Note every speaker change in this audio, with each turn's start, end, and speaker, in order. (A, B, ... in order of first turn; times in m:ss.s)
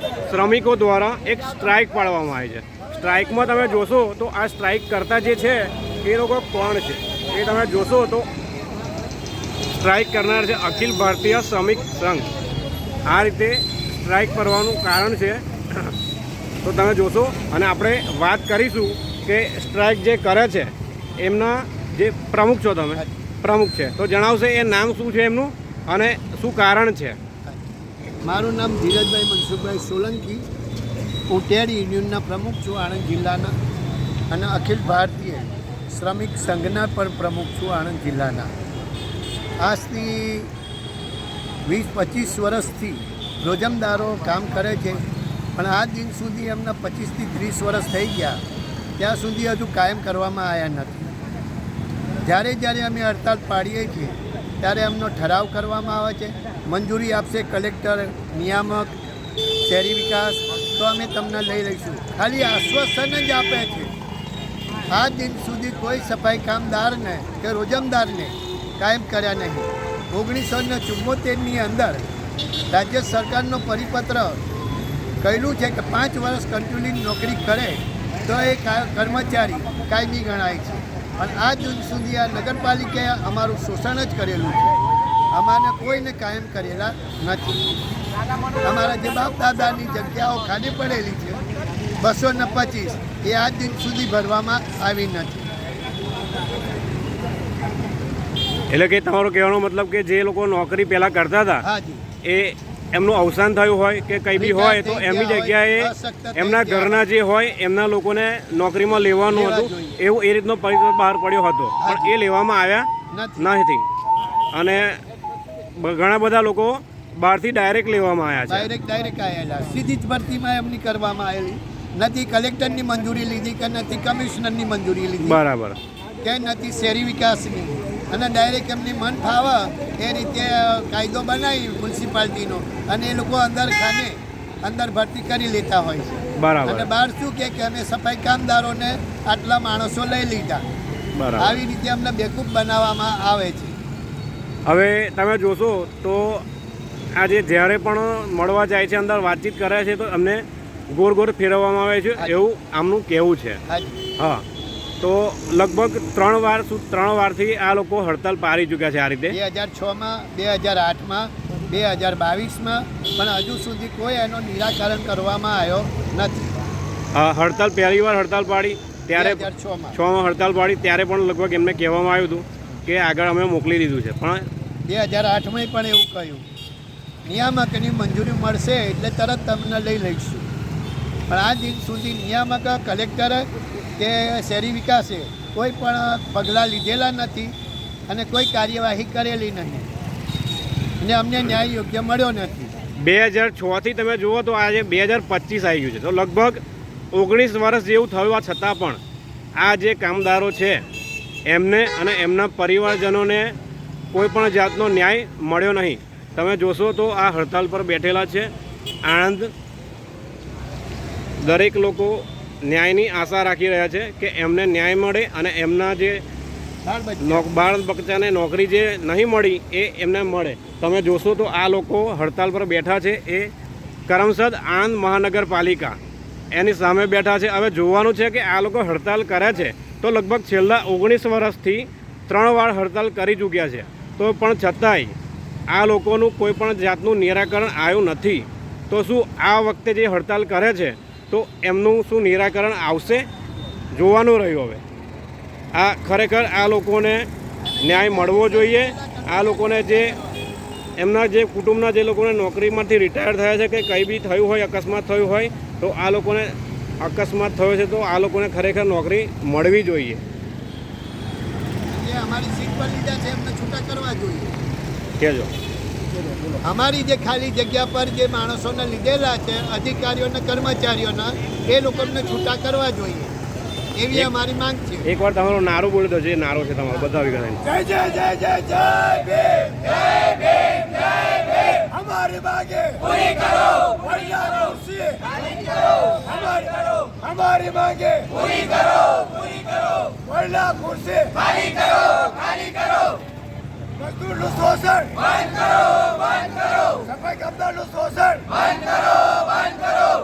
0:00.3-0:08.3 A
0:09.8-0:12.3 A
0:13.0-0:16.0 A
0:16.6-0:27.2 A
0:28.2-0:30.4 B
0:31.3-0:33.5 B
0:34.3-0:38.5 B
0:39.6-0:40.5 B
0:41.6-0:48.4 B
0:49.0-0:51.1 B
0:52.2-0:58.9 B
0:59.6-1:03.9 B
1:04.9-1:12.1 B
1:12.7-1:14.4 B
1:15.2-1:24.7 B
1:25.3-1:27.6 B
1:28.6-1:31.4 B
1:32.0-1:35.5 B
1:38.7-1:41.6 A
1:41.6-1:42.0 B
1:42.2-1:52.9 A
1:44.4-1:47.0 B
1:49.3-1:50.0 B
1:51.8-1:52.1 B
1:53.1-1:53.5 B
1:53.4-1:53.8 A
1:54.5-1:55.0 A
1:55.7-1:58.7 A
1:58.5-2:05.4 B
2:05.2-2:05.8 A
2:06.2-2:20.6 B
2:16.4-2:16.9 A
2:21.2-2:21.6 A
2:21.4-2:23.8 B
2:24.6-2:26.4 A
2:27.1-2:33.6 A
2:33.7-2:34.0 B
2:34.2-2:34.4 A
2:35.0-2:39.4 A
2:39.3-2:46.6 B
2:47.1-2:54.4 A
2:49.1-2:50.0 B
2:54.8-2:56.5 B
2:57.2-3:00.5 B
3:01.3-3:07.5 B
3:08.1-3:09.9 B
3:11.0-3:12.7 B
3:13.0-3:16.6 A
3:17.1-3:19.0 A
3:19.6-3:20.8 A
3:21.5-3:23.6 A
3:24.1-3:28.5 A
3:29.0-3:29.5 A
3:31.4-3:36.2 A
3:36.8-3:37.5 B
3:37.2-3:43.5 A
3:44.1-3:46.0 A
3:46.5-3:55.2 A
3:55.7-4:03.3 A
4:03.9-4:04.8 A
4:05.7-4:07.3 A
4:07.8-4:10.4 B
4:07.8-4:10.2 A
4:11.0-4:20.2 A
4:21.9-4:24.6 B
4:25.2-4:25.5 A
4:26.6-4:33.3 B
4:34.0-4:35.0 B
4:35.0-4:37.7 A
4:37.8-4:39.6 B
4:41.7-4:45.2 B
4:46.3-4:48.4 B
4:50.2-4:51.4 B
4:54.1-4:55.2 B
4:56.9-4:58.4 B